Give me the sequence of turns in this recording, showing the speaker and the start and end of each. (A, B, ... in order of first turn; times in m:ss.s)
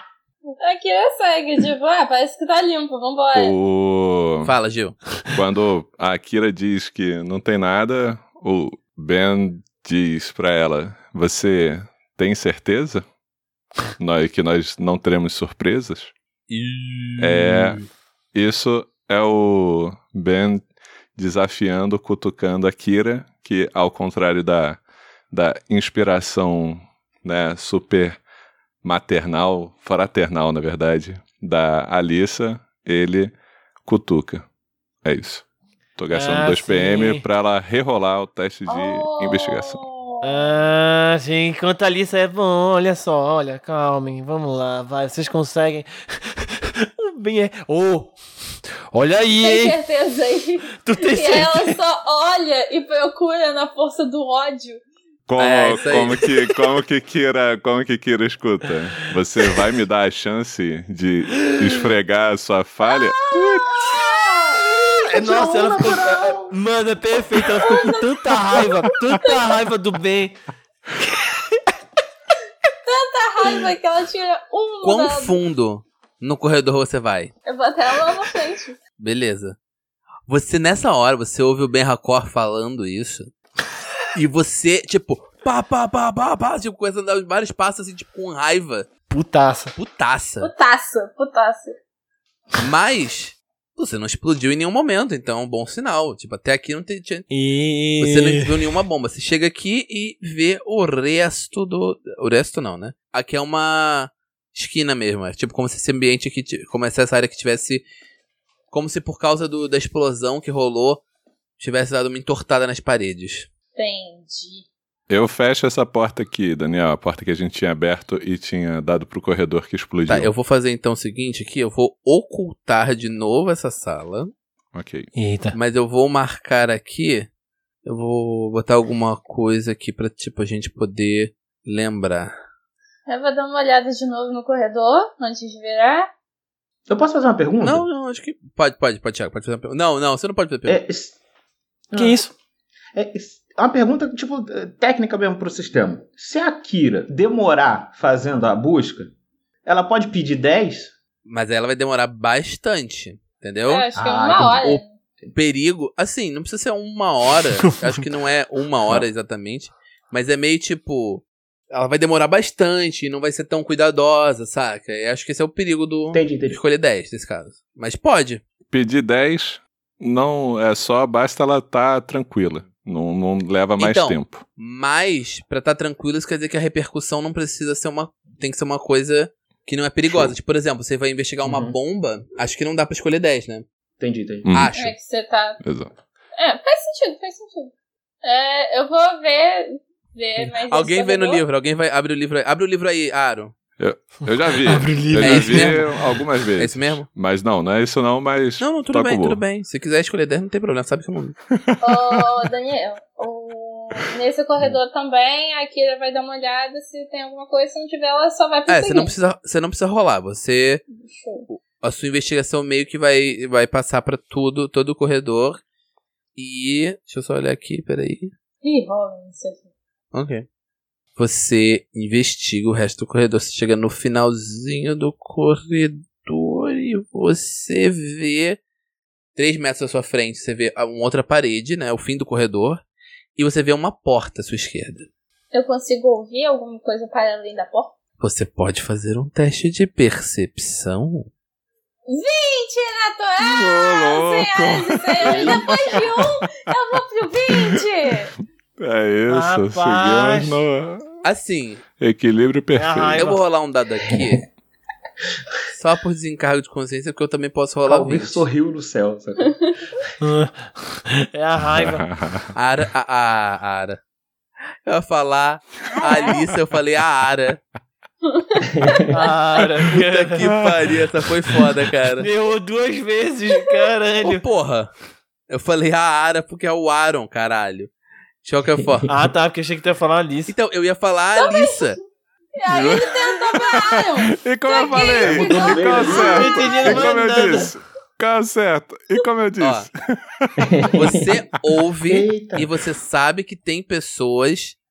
0:00.6-0:03.6 A
0:03.4-0:04.5 B
0:04.4-0:05.0 C
0:05.3-0:13.0 B
0:14.0-0:16.1 B
0:16.5-0:17.9 C
0:17.2-0:17.8 B
0:18.3-0:24.8 B
0:25.3-0:28.2 B
0:28.8-0:33.3 B
0:33.8-0:34.5 B
0:35.0-0:35.4 B
0:36.0-0:39.8 B
0:36.1-0:37.2 D
0:38.7-0:40.5 A
0:40.2-0:48.2 D
0:48.9-0:49.8 D
0:49.4-0:54.8 A
0:50.8-0:51.8 D
0:55.3-1:03.8 B
0:55.4-0:56.2 C
1:01.3-1:01.9 D
1:02.9-1:04.9 A
1:05.0-1:10.4 D
1:05.1-1:06.6 E
1:07.6-1:09.5 A
1:11.0-1:11.7 D
1:12.9-1:15.4 A
1:14.8-1:17.3 C
1:17.5-1:18.8 A
1:19.0-1:19.6 C
1:20.3-1:23.3 C
1:24.1-1:28.9 C
1:29.1-1:29.8 D
1:29.8-1:30.5 C
1:30.4-1:31.8 A
1:32.6-1:37.3 C
1:37.3-1:38.7 D
1:38.0-1:47.8 C
1:48.7-1:51.0 C
1:51.6-1:53.5 C
1:53.8-1:54.6 A
1:55.1-2:00.3 B
2:00.1-2:04.3 C
2:04.7-2:05.1 B
2:05.2-2:05.6 D
2:05.5-2:07.3 C
2:07.9-2:12.3 C
2:13.1-2:16.1 A
2:16.9-2:17.9 E
2:17.6-2:20.8 C
2:20.7-2:21.2 E
2:21.9-2:22.2 E
2:22.0-2:22.3 D
2:23.0-2:29.1 E
2:29.6-2:31.0 E
2:31.3-2:34.8 C
2:33.7-2:35.0 A
2:34.0-2:35.3 E
2:35.3-2:48.4 C
2:46.1-2:46.6 E
2:48.7-2:54.4 B
2:53.8-3:03.7 C
3:00.1-3:00.3 B
3:01.4-3:01.8 E
3:04.0-3:04.5 E
3:04.4-3:04.7 B
3:04.5-3:05.0 C
3:04.7-3:05.6 A
3:05.6-3:05.9 B
3:06.4-3:11.4 A
3:10.7-3:13.6 C
3:13.8-3:19.4 B
3:14.5-3:16.0 D
3:15.2-3:15.8 C
3:16.6-3:17.1 C
3:18.6-3:21.4 C
3:21.5-3:22.3 B
3:21.8-3:29.1 A
3:28.7-3:30.8 C
3:30.9-3:31.5 A
3:31.5-3:35.6 C
3:36.4-3:38.3 C
3:38.6-3:39.7 A
3:40.1-3:40.5 C
3:41.2-3:48.6 C
3:49.4-3:52.8 C
3:53.4-3:55.1 C
3:55.5-3:57.9 A
3:58.2-4:01.3 C
4:02.1-4:08.3 A
4:03.4-4:06.5 B
4:05.2-4:05.7 C
4:07.5-4:07.8 B
4:08.8-4:11.1 B
4:09.3-4:10.6 D
4:11.2-4:11.8 C
4:12.0-4:13.3 B
4:12.8-4:13.4 D
4:13.2-4:14.4 C
4:14.1-4:14.4 E
4:15.7-4:18.4 C
4:17.8-4:19.7 E
4:20.2-4:22.0 D
4:21.6-4:22.5 B
4:22.6-4:24.0 C
4:24.9-4:27.6 C
4:26.0-4:26.3 A
4:28.2-4:29.3 A
4:28.7-4:29.3 E
4:29.1-4:30.5 D
4:29.8-4:32.3 C
4:30.4-4:31.6 B
4:32.2-4:34.4 D
4:34.2-4:34.9 C
4:35.5-4:37.9 C
4:38.4-4:39.1 C
4:38.8-4:39.0 E
4:39.1-4:40.5 D
4:40.5-4:42.0 C
4:41.4-4:42.0 A
4:42.6-4:47.7 A
4:42.7-4:50.9 B
4:45.1-4:46.7 E
4:46.1-4:47.7 D
4:49.6-4:49.9 C
4:50.6-4:51.3 E
4:51.0-4:54.8 C
4:52.1-4:52.7 E